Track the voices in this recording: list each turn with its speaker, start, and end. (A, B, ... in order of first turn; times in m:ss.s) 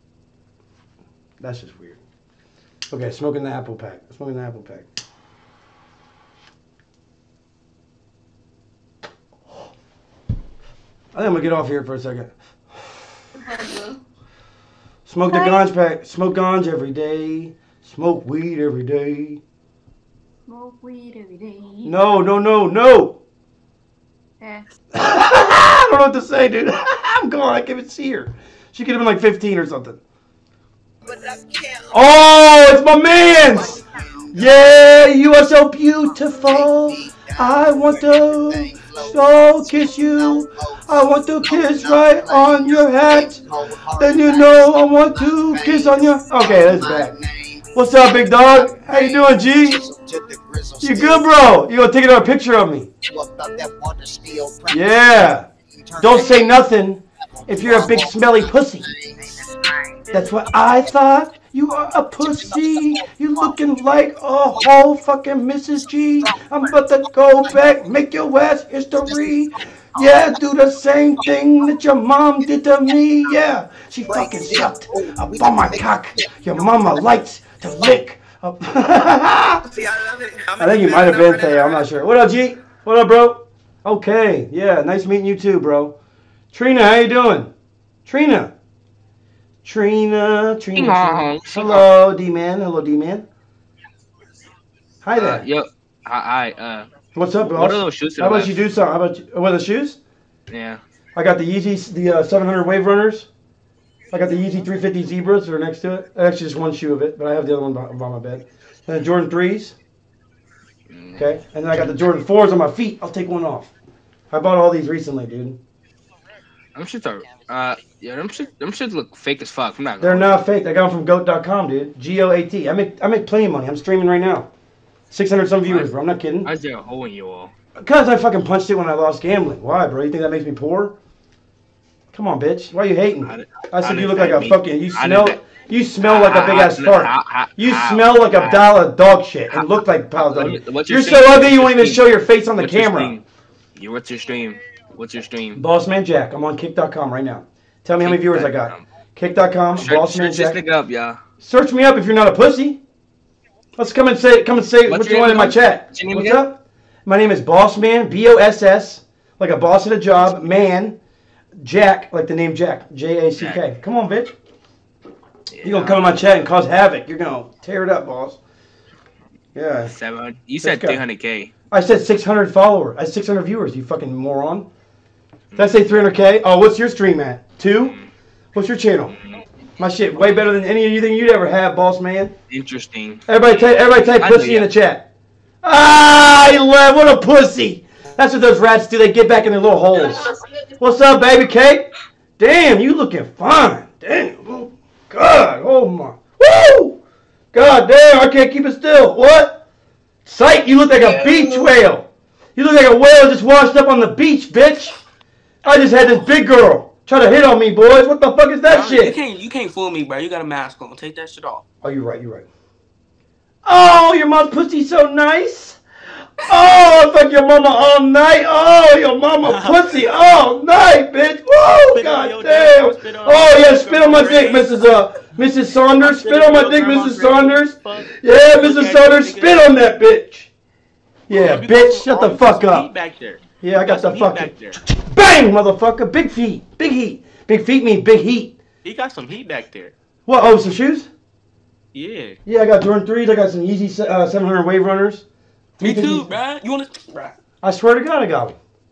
0:01.4-0:02.0 A
0:02.9-0:04.8 A
0:11.1-0:12.3 A
0:13.4-0:14.0 B
0:15.0-0:19.4 A
0:15.3-0:15.6 B
0:20.5-0:22.0 B
0:21.8-0:23.2 A
0:24.9-0:30.0 A
0:31.9-0:33.8 A
0:34.3-0:43.4 A
0:44.0-0:47.2 A
0:47.7-0:49.9 A
0:50.8-0:52.9 A
0:54.7-0:55.5 A
0:56.0-0:58.9 A
1:00.1-1:19.6 A
1:20.6-1:26.0 A
1:26.5-1:27.5 A
1:28.0-1:28.5 A
1:29.6-1:33.2 A
1:30.7-1:31.9 C
1:35.0-1:35.4 A
1:35.2-1:38.6 C
1:37.1-1:40.0 A
1:40.5-1:40.8 C
1:41.1-1:43.3 A
1:44.1-1:49.8 A
1:50.9-1:52.0 C
1:51.2-1:53.7 A
1:54.3-1:55.6 A
1:56.7-2:00.3 C
2:00.0-2:04.5 A
2:05.1-2:06.5 A
2:05.6-2:07.5 C
2:07.8-2:10.9 A
2:12.1-2:23.1 A
2:13.2-2:15.4 C
2:16.0-2:18.7 C
2:19.5-2:23.2 C
2:23.8-2:25.6 C
2:25.5-2:30.6 A
2:27.9-2:28.8 C
2:29.7-2:31.2 C
2:31.4-2:32.8 A
2:33.8-2:41.0 A
2:34.8-2:36.4 C
2:41.6-2:44.3 A
2:43.3-2:43.6 C
2:45.5-2:46.3 C
2:45.6-2:48.4 A
2:49.5-2:49.9 A
2:49.8-2:51.5 C
2:50.6-2:51.0 A
2:51.7-2:54.7 A
2:55.5-2:56.0 C
2:55.6-2:57.9 A
2:57.8-2:58.1 C
2:58.5-2:59.2 A
2:59.8-3:02.3 A
3:00.2-3:00.4 C
3:02.5-3:04.7 C
3:03.3-3:05.1 A
3:05.6-3:10.3 A
3:10.8-3:17.0 A
3:17.5-3:19.6 A
3:20.2-3:25.0 A
3:25.6-3:29.2 A
3:31.8-3:32.5 A
3:33.6-3:35.8 A
3:36.4-3:50.5 A
3:41.9-3:44.5 D
3:46.2-3:47.3 D
3:48.6-3:49.4 D
3:51.3-3:52.9 A
3:51.6-3:52.6 D
3:53.6-3:58.6 A
3:53.9-3:54.5 D
3:59.4-3:59.9 D
4:00.2-4:01.1 A
4:02.4-4:05.2 A
4:05.8-4:06.4 A
4:07.6-4:08.6 A